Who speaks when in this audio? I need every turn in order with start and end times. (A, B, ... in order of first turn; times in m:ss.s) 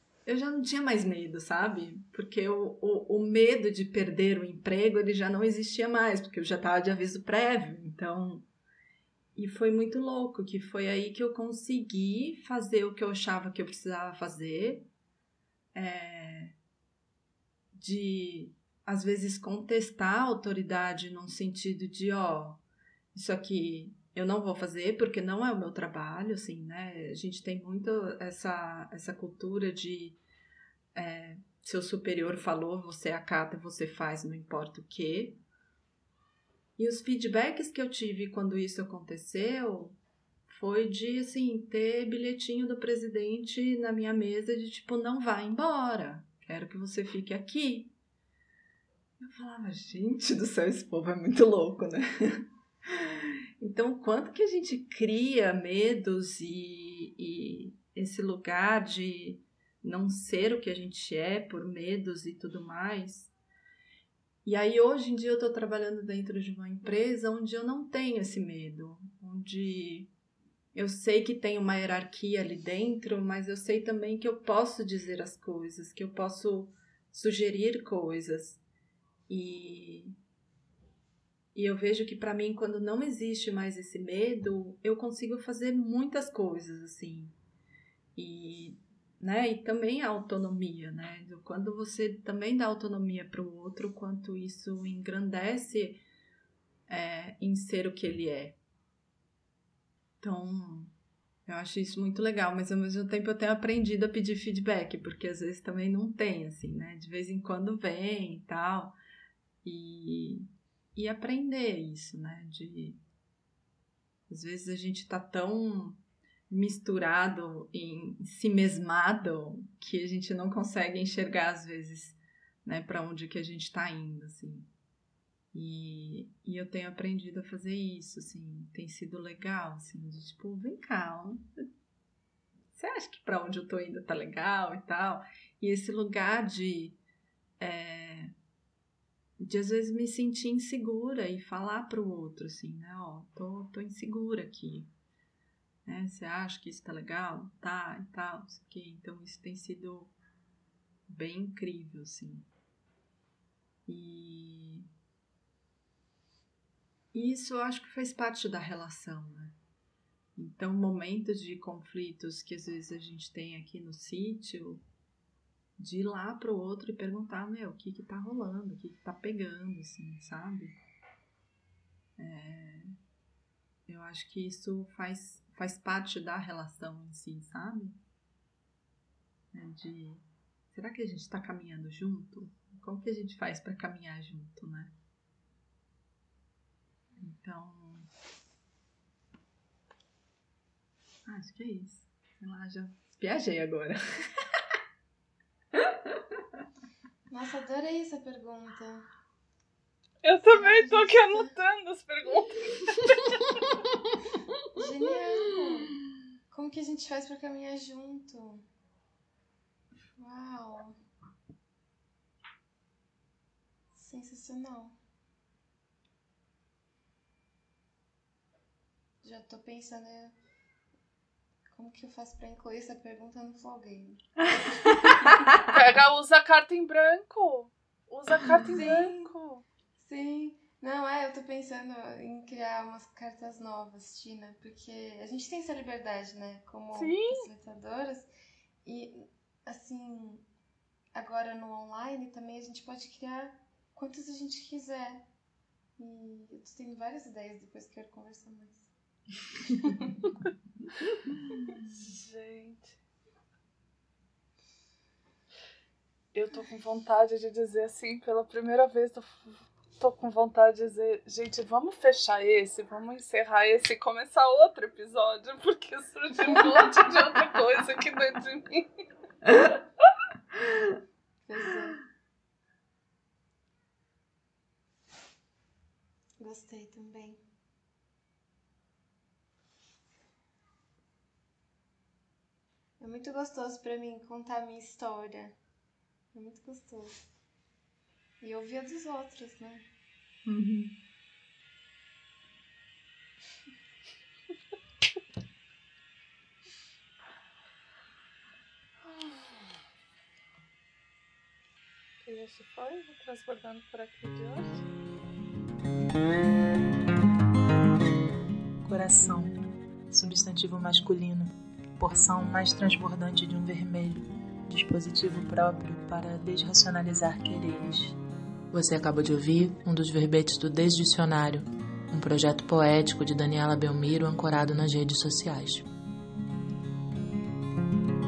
0:00.2-0:08.5 A
0:09.3-0:14.9 A
0:15.7-0:16.6 A
0:17.7-0:22.6 A
0:23.1-0:30.2 A
0:30.9-0:35.4 A
0:36.8-0:47.9 A
0:49.2-1:03.3 A
1:04.4-1:10.1 A
1:10.7-1:18.6 A
1:19.3-1:20.2 A
1:21.5-1:27.3 A
1:28.1-1:36.0 A
1:36.9-1:38.6 A
1:40.2-1:40.9 A
1:41.4-1:49.0 A
1:49.6-1:53.0 A
1:54.3-2:04.7 A
2:05.5-2:11.6 A
2:12.7-2:17.0 A
2:17.6-2:18.3 A
2:19.4-2:24.9 A
2:25.8-2:30.1 A
2:31.1-2:32.5 A
2:33.8-2:34.9 A
2:37.1-2:39.6 A
2:40.4-2:44.8 A
2:45.8-2:50.8 A
2:52.2-2:52.9 A
2:53.9-2:58.0 A
2:59.5-3:04.9 A
3:07.2-3:08.1 A
3:11.2-3:14.6 A
3:15.7-3:16.4 A
3:17.3-3:19.1 B
3:20.2-3:23.4 C
3:20.5-3:21.6 B
3:24.7-3:26.0 B
3:26.5-3:28.6 B
3:30.2-3:31.0 B
3:33.9-3:35.0 B
3:39.2-3:40.4 B
3:41.7-3:44.2 B
3:45.6-3:49.6 C
3:48.5-3:49.3 B
3:50.0-3:58.3 B
3:56.9-3:57.5 C
3:58.8-4:00.4 B
4:01.1-4:05.3 B
4:06.0-4:08.9 B
4:09.8-4:10.1 B
4:11.8-4:13.0 C
4:16.3-4:28.9 C
4:31.4-4:32.0 B
4:36.4-4:37.4 B
4:43.0-4:45.6 B
4:46.3-4:47.2 B
4:48.4-4:49.8 B
4:50.4-4:51.0 A
5:02.2-5:04.8 C
5:08.8-5:18.2 D
5:18.7-5:25.9 D